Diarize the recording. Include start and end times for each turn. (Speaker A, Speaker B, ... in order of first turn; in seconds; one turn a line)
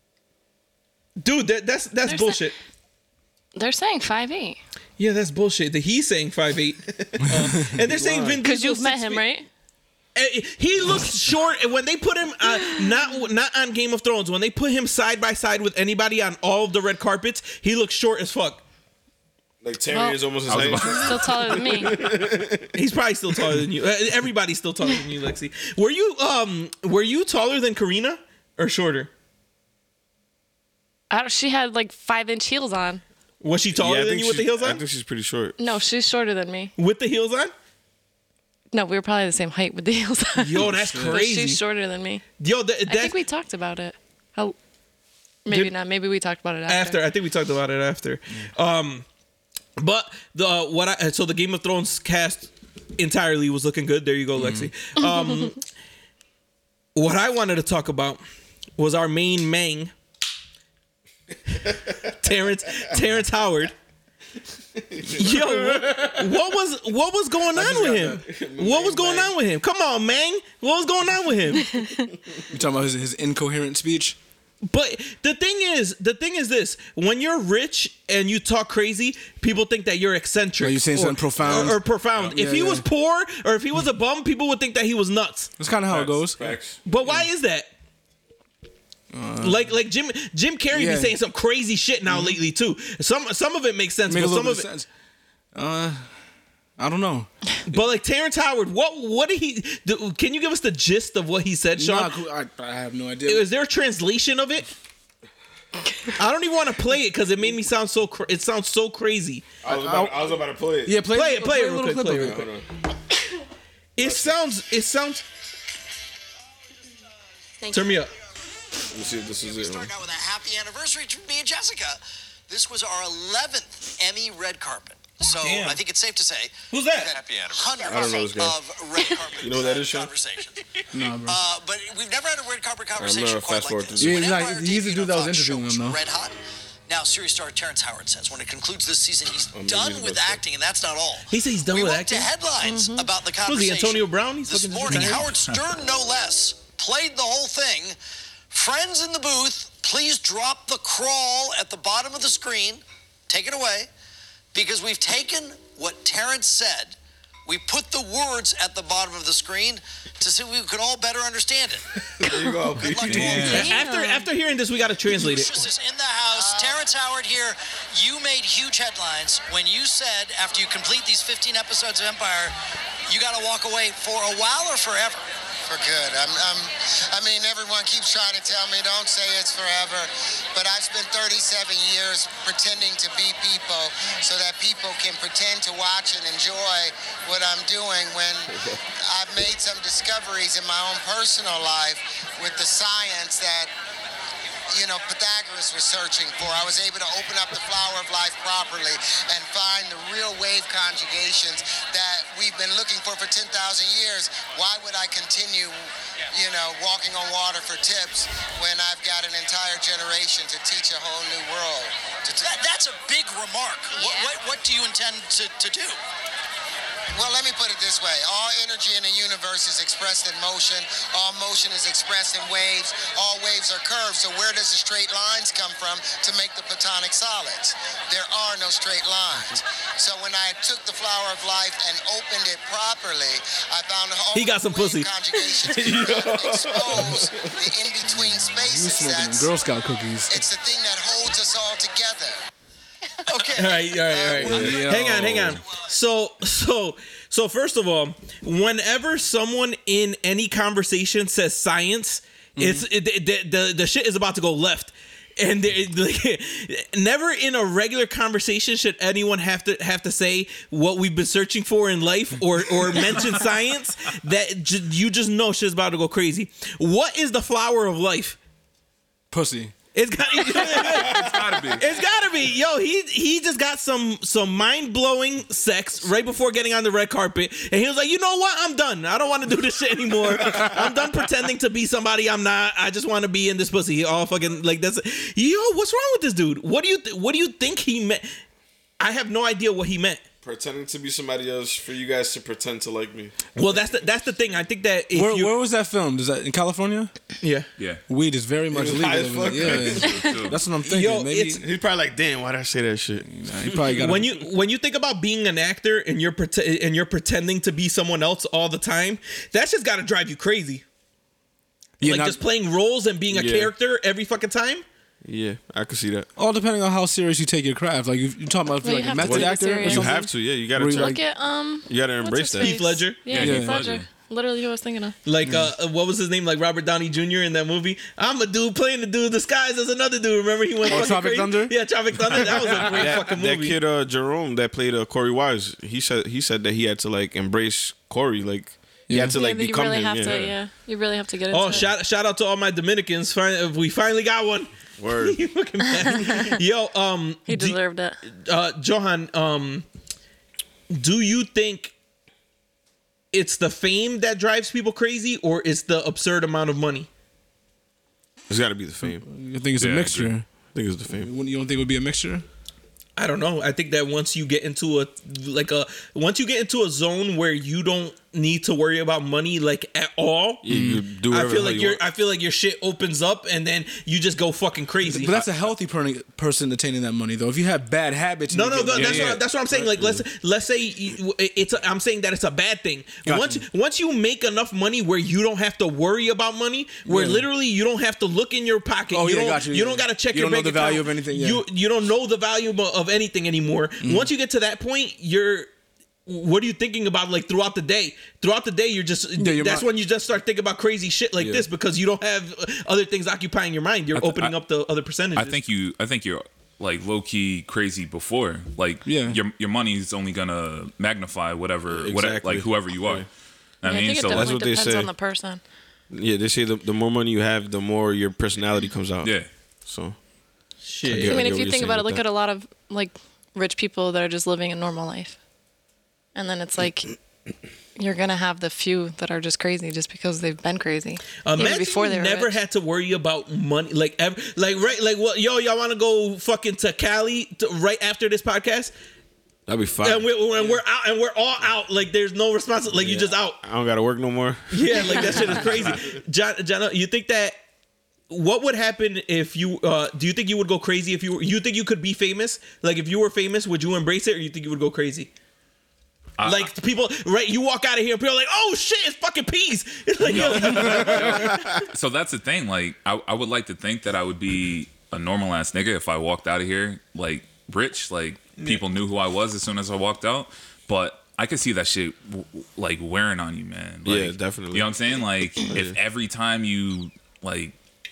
Speaker A: 1.2-2.5
Speaker B: 2.0-2.4
Speaker B: 3.5-4.6
Speaker A: 5.0-9.2
Speaker C: 7.9-8.4
Speaker B: 8.4-9.5
Speaker A: 10.1-18.6
Speaker B: 12.6-12.9
Speaker C: 19.6-22.7
Speaker B: 19.9-22.0
Speaker D: 20.5-21.5
Speaker A: 22.7-29.1
Speaker B: 31.1-33.0
Speaker A: 33.4-34.8
Speaker C: 33.8-35.6
Speaker B: 35.6-36.7
Speaker A: 36.8-37.5
Speaker B: 38.7-42.2
Speaker A: 40.4-41.6
Speaker E: 40.6-41.2
Speaker A: 42.4-43.1
Speaker B: 42.9-44.5
Speaker B: 45.4-47.0
Speaker A: 45.5-45.7
Speaker A: 46.7-49.0
Speaker A: 49.8-55.6
Speaker E: 54.4-54.7
Speaker B: 55.0-55.5
Speaker A: 56.9-58.2
Speaker A: 58.8-59.9
Speaker A: 62.0-63.7
Speaker C: 64.8-65.9
Speaker A: 65.1-71.8
Speaker E: 67.5-68.2
Speaker C: 68.1-69.3
Speaker E: 72.5-74.2
Speaker A: 74.6-85.5
Speaker E: 80.6-82.8
Speaker E: 85.6-86.5
Speaker D: 85.9-86.2
Speaker C: 86.3-86.8
Speaker A: 86.8-87.7
Speaker E: 89.1-89.7
Speaker A: 89.4-94.7
Speaker E: 90.7-91.2
Speaker E: 92.1-92.4
Speaker E: 94.1-94.9
Speaker E: 95.5-96.1
Speaker E: 96.8-97.3
Speaker A: 97.7-102.1
Speaker E: 101.8-103.5
Speaker A: 103.2-104.7
Speaker A: 106.2-109.5
Speaker C: 109.6-111.0
Speaker E: 109.6-112.5
Speaker A: 111.1-112.5
Speaker C: 112.2-112.7
Speaker A: 114.0-115.2
Speaker C: 114.0-114.4
Speaker B: 117.6-118.0
Speaker A: 117.7-118.1
Speaker C: 118.9-119.9
Speaker F: 119.4-136.3
Speaker A: 125.4-125.8
Speaker A: 126.7-127.2
Speaker C: 127.8-128.6
Speaker C: 129.4-130.1
Speaker E: 130.9-131.4
Speaker C: 133.0-134.3
Speaker E: 134.0-136.0
Speaker F: 136.9-147.9
Speaker C: 139.5-140.4
Speaker A: 141.3-142.3
Speaker B: 142.6-143.1
Speaker A: 143.4-145.3
Speaker D: 144.9-145.2
Speaker F: 148.5-153.9
Speaker F: 154.5-161.9
Speaker C: 162.2-163.6
Speaker F: 162.8-163.8
Speaker D: 163.1-163.6
Speaker A: 163.3-165.6
Speaker B: 163.4-164.3
Speaker F: 165.0-172.6
Speaker G: 166.3-166.8
Speaker F: 173.1-175.2
Speaker G: 175.7-193.7
Speaker G: 194.7-212.6
Speaker F: 212.4-216.0
Speaker B: 214.0-214.3
Speaker G: 217.1-239.5
Speaker A: 234.3-235.1
Speaker A: 235.6-236.1
Speaker C: 235.8-237.7
Speaker E: 238.1-240.4
Speaker G: 240.3-242.4
Speaker F: 243.3-244.1
Speaker A: 243.5-268.4
Speaker G: 244.1-244.7
Speaker E: 244.4-245.5
Speaker C: 244.6-245.6
Speaker E: 252.6-252.8
Speaker E: 269.3-269.7
Speaker A: 269.9-288.3
Speaker D: 270.9-271.8
Speaker A: 289.0-290.2
Speaker C: 290.4-293.3
Speaker A: 293.6-295.5
Speaker E: 295.1-297.1
Speaker A: 297.4-297.7
Speaker E: 298.1-301.6
Speaker C: 298.7-300.2
Speaker D: 299.6-300.6
Speaker A: 300.8-301.6
Speaker C: 301.6-304.0
Speaker E: 303.2-304.3
Speaker A: 303.9-310.8
Speaker E: 312.0-312.4
Speaker A: 312.0-314.8
Speaker C: 313.3-313.7
Speaker C: 315.2-316.3
Speaker E: 316.4-321.2
Speaker B: 318.8-320.3
Speaker C: 319.2-321.2
Speaker B: 320.8-325.1
Speaker C: 321.9-322.8
Speaker A: 322.6-323.4
Speaker D: 323.2-324.1
Speaker E: 323.3-323.8
Speaker A: 325.2-333.8
Speaker E: 330.9-331.7
Speaker C: 332.6-340.5
Speaker E: 332.6-333.0
Speaker E: 339.1-339.4
Speaker B: 339.3-341.9
Speaker D: 340.2-340.6
Speaker A: 341.5-349.9
Speaker C: 345.0-345.4
Speaker B: 346.1-346.5
Speaker B: 347.5-348.2
Speaker A: 350.9-351.9
Speaker A: 353.3-357.1
Speaker C: 358.5-359.2
Speaker E: 359.0-360.4
Speaker D: 359.8-360.3
Speaker C: 360.7-361.3
Speaker E: 361.1-362.4
Speaker A: 363.1-370.7
Speaker C: 370.6-372.0
Speaker E: 370.7-371.0
Speaker A: 371.2-375.5
Speaker E: 375.0-379.4
Speaker A: 378.5-395.7
Speaker C: 378.9-380.2
Speaker E: 383.2-383.6
Speaker E: 387.1-387.5
Speaker E: 389.1-391.6
Speaker E: 394.0-394.3
Speaker A: 396.2-405.6
Speaker E: 399.4-399.9
Speaker E: 401.4-401.7
Speaker D: 404.1-404.6
Speaker D: 405.3-413.2
Speaker E: 409.0-409.4
Speaker C: 411.9-413.3
Speaker D: 413.8-414.5
Speaker B: 413.8-415.6
Speaker C: 414.2-415.1
Speaker C: 416.1-419.3
Speaker D: 419.2-419.5
Speaker C: 419.9-420.1
Speaker A: 420.8-421.5
Speaker C: 421.0-422.2
Speaker B: 421.2-425.4
Speaker B: 426.3-427.1
Speaker B: 427.9-432.6
Speaker A: 431.4-438.9
Speaker C: 439.7-440.7
Speaker A: 440.0-443.6
Speaker C: 442.9-446.0
Speaker A: 444.7-447.6
Speaker A: 448.3-455.3
Speaker D: 456.4-456.7
Speaker A: 456.4-461.8
Speaker D: 460.2-477.7
Speaker C: 461.1-461.6
Speaker C: 474.0-475.2
Speaker C: 475.7-475.9